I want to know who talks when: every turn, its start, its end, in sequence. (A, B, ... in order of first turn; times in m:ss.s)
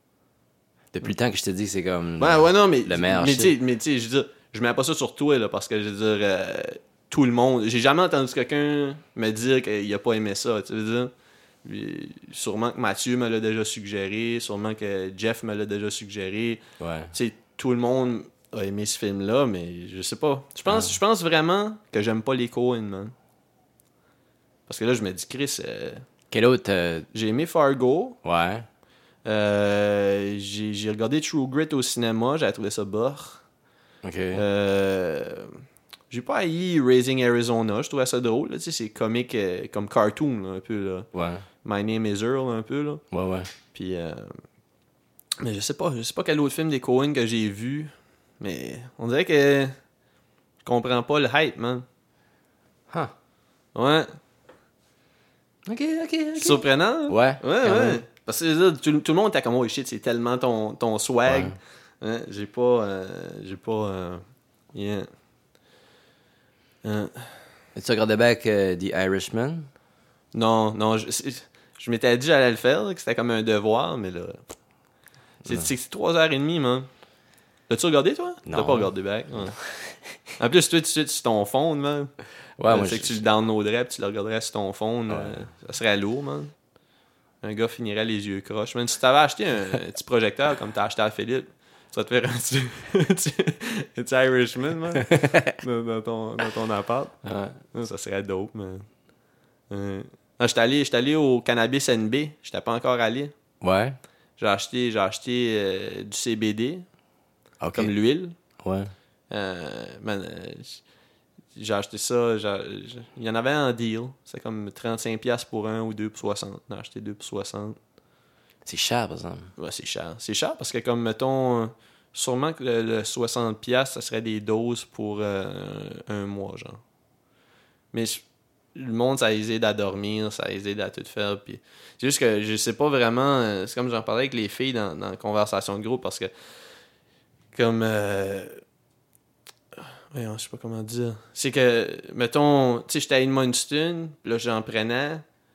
0:00.9-0:03.6 A
0:02.2-0:11.1 B
0:11.6-0:16.6 B
0:16.8-0:17.1 A
0:17.1-0:23.1 B
0:20.7-0:21.0 A
0:24.7-0:26.0 B
0:26.3-0:27.1 A
0:27.1-0:28.2 B
0:28.2-0:28.7 A
0:29.2-0:33.4 B
0:34.0-0:34.4 A
0:34.3-0:35.6 B
0:36.1-0:41.1 B
0:41.1-0:41.4 A
0:41.6-0:43.0 B
0:43.1-0:43.5 A
0:43.7-0:44.4 B
0:45.4-0:49.7 B
0:50.6-0:51.8 B
0:53.8-0:54.1 B
0:55.7-0:58.0 A
0:56.4-1:04.2 B
1:01.2-1:01.6 A
1:04.7-1:05.1 B
1:06.8-1:07.3 B
1:07.8-1:09.7 A
1:10.3-1:14.4 B
1:15.5-1:16.9 B
1:17.7-1:19.6 B
1:18.5-1:19.9 A
1:20.4-1:22.1 B
1:22.6-1:23.2 A
1:22.7-1:26.5 B
1:25.1-1:25.4 A
1:27.4-1:35.1 B
1:35.0-1:35.5 A
1:35.6-1:37.2 B
1:37.2-1:37.6 A
1:37.7-1:38.8 B
1:39.7-1:43.3 B
1:43.6-1:44.0 A
1:44.4-1:46.9 B
1:47.6-1:47.9 A
1:47.7-1:48.4 B
1:48.6-1:48.9 A
1:49.3-1:50.8 B
1:51.6-1:57.8 B
1:58.7-1:59.5 A
1:59.6-2:06.8 B
2:07.9-2:08.2 B
2:08.8-2:16.3 B
2:17.5-2:18.6 B
2:20.1-2:25.2 B